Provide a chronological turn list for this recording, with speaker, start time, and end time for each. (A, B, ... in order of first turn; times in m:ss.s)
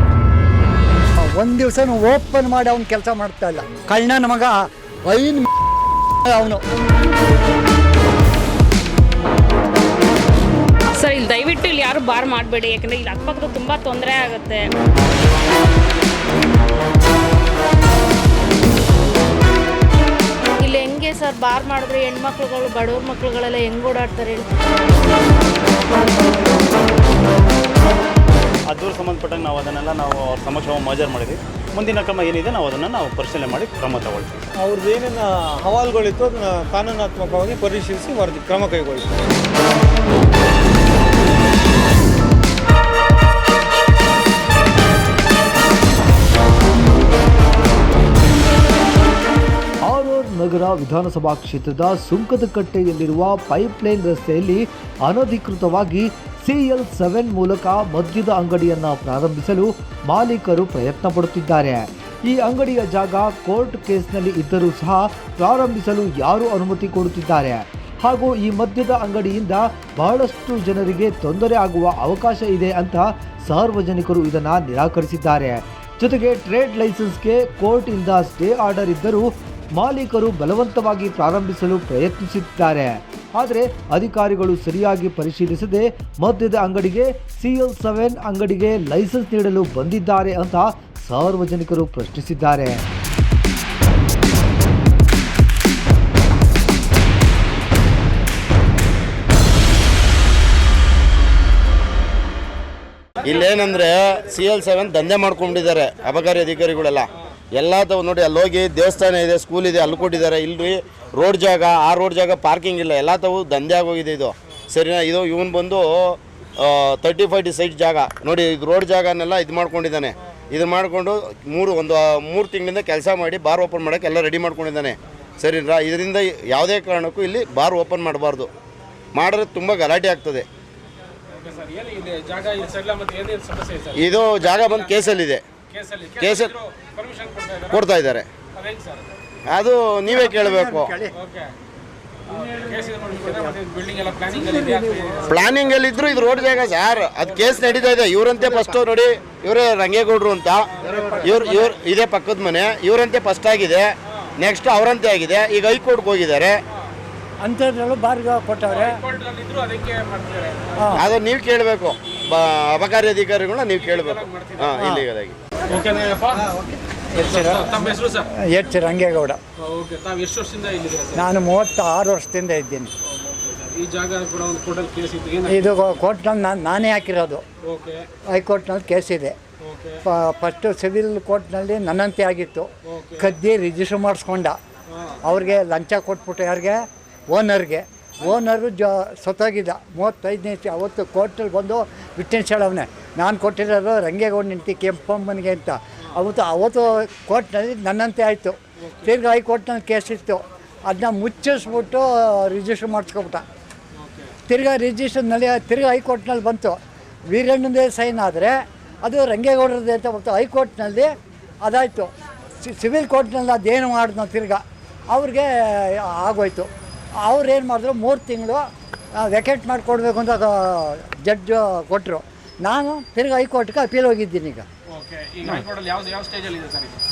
0:01.2-0:05.5 A
0:06.2-0:06.6 A
0:11.0-0:14.6 B
0:20.6-0:24.5 C
0:28.7-0:34.4 D
0:34.6-0:39.2 E
0:49.9-1:32.8 F
1:43.2-2:08.5 G
2:09.1-2:10.4 G
2:11.3-2:15.0 H
2:13.9-2:15.4 G
2:15.7-2:17.8 H
2:16.2-2:16.5 G
2:17.7-2:18.2 G
2:18.5-2:19.0 H
2:19.5-2:20.9 G
2:20.1-2:21.1 A
2:21.2-2:21.5 H
2:22.3-2:25.3 H
2:24.3-2:25.2 A
2:25.2-2:30.7 G
2:28.4-2:28.8 A
2:30.8-2:31.2 H
2:30.8-2:31.8 A
2:31.2-2:36.6 G
2:37.4-2:39.0 A
2:38.7-2:40.8 H
2:40.8-2:41.1 A
2:41.0-2:45.4 G
2:43.8-2:44.7 H
2:44.8-2:45.1 A
2:45.7-2:46.5 H
2:47.2-2:49.4 A
2:47.2-2:48.2 H
2:49.6-2:51.2 H
2:51.1-2:52.9 A
2:53.1-2:55.6 H
2:55.5-2:57.4 A
2:57.6-2:58.0 H
2:58.3-2:59.3 A
2:59.6-3:00.0 H
3:00.1-3:04.6 A
3:02.9-3:03.3 H
3:05.2-3:06.8 A
3:07.3-3:23.4 A
3:24.0-3:24.3 H
3:24.5-3:26.8 A
3:27.3-3:31.1 A
3:31.6-3:32.1 A
3:32.6-3:36.7 A
3:37.2-3:38.6 A
3:39.2-3:44.6 A
3:44.9-3:47.0 H